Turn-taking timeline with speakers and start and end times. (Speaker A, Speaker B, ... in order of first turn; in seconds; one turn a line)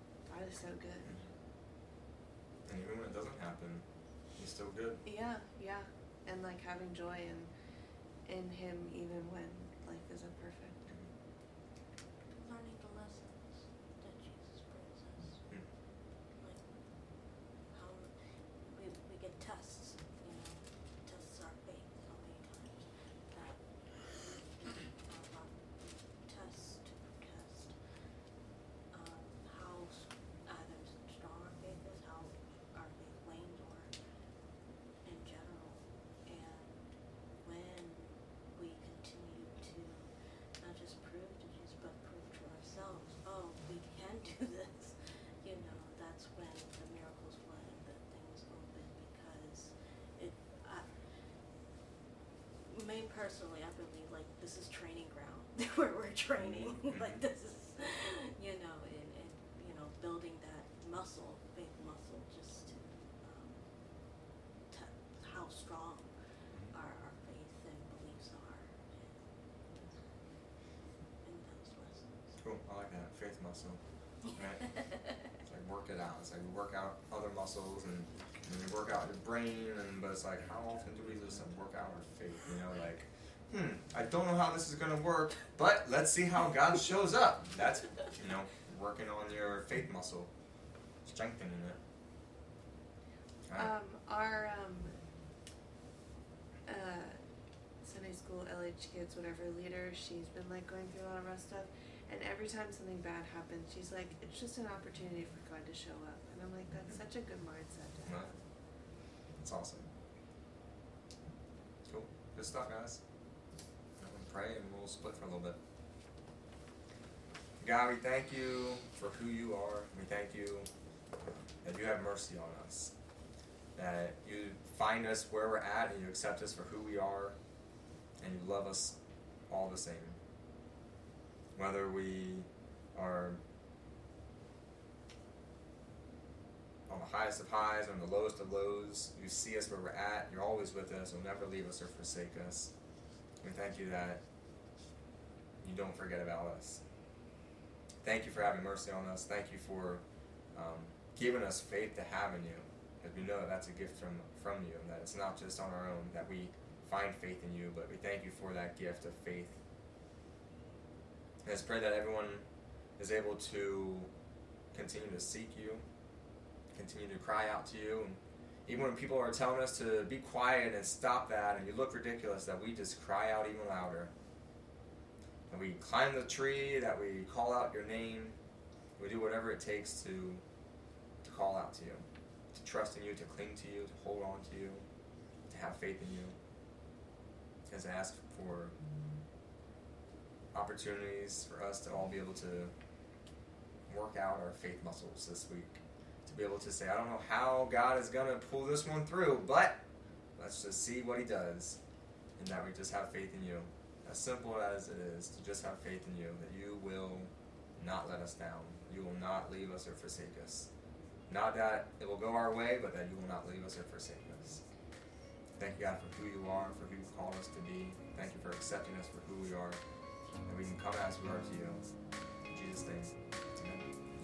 Speaker A: 0.2-1.2
Speaker B: 1.0-1.3
Speaker B: 2.6-5.0
Speaker A: 5.0-7.5
Speaker A: 8.2-10.8
Speaker C: 12.3-27.8
Speaker C: 28.9-34.0
Speaker C: 35.0-51.1
Speaker C: 52.6-66.1
Speaker B: 56.9-57.2
Speaker C: 66.7-70.6
Speaker C: 71.2-72.4
Speaker B: 72.4-90.3
Speaker C: 74.6-75.1
Speaker B: 91.0-91.8
Speaker A: 93.5-95.0
Speaker A: 96.7-97.2
Speaker A: 97.8-108.4
Speaker B: 109.4-109.9
Speaker B: 111.8-113.0
Speaker B: 114.0-115.6
Speaker B: 117.6-120.7
Speaker B: 121.2-122.9
Speaker B: 123.7-127.4
Speaker B: 128.2-129.0
Speaker B: 129.5-130.2
Speaker B: 131.5-133.4
Speaker B: 136.9-142.7
Speaker B: 143.4-144.2
Speaker B: 145.6-146.8
Speaker B: 148.0-159.6
Speaker B: 161.4-162.4
Speaker B: 163.0-164.1
Speaker B: 164.7-165.8
Speaker B: 166.7-174.1
Speaker B: 175.5-178.3
Speaker B: 179.0-180.4
Speaker B: 181.2-184.8
Speaker B: 185.5-186.3
Speaker B: 187.7-188.7
Speaker B: 190.5-192.7
Speaker B: 193.9-199.8
Speaker B: 200.3-201.8
Speaker B: 202.4-210.7
Speaker B: 211.3-214.6
Speaker B: 215.6-219.8
Speaker B: 220.4-221.8
Speaker B: 222.5-223.8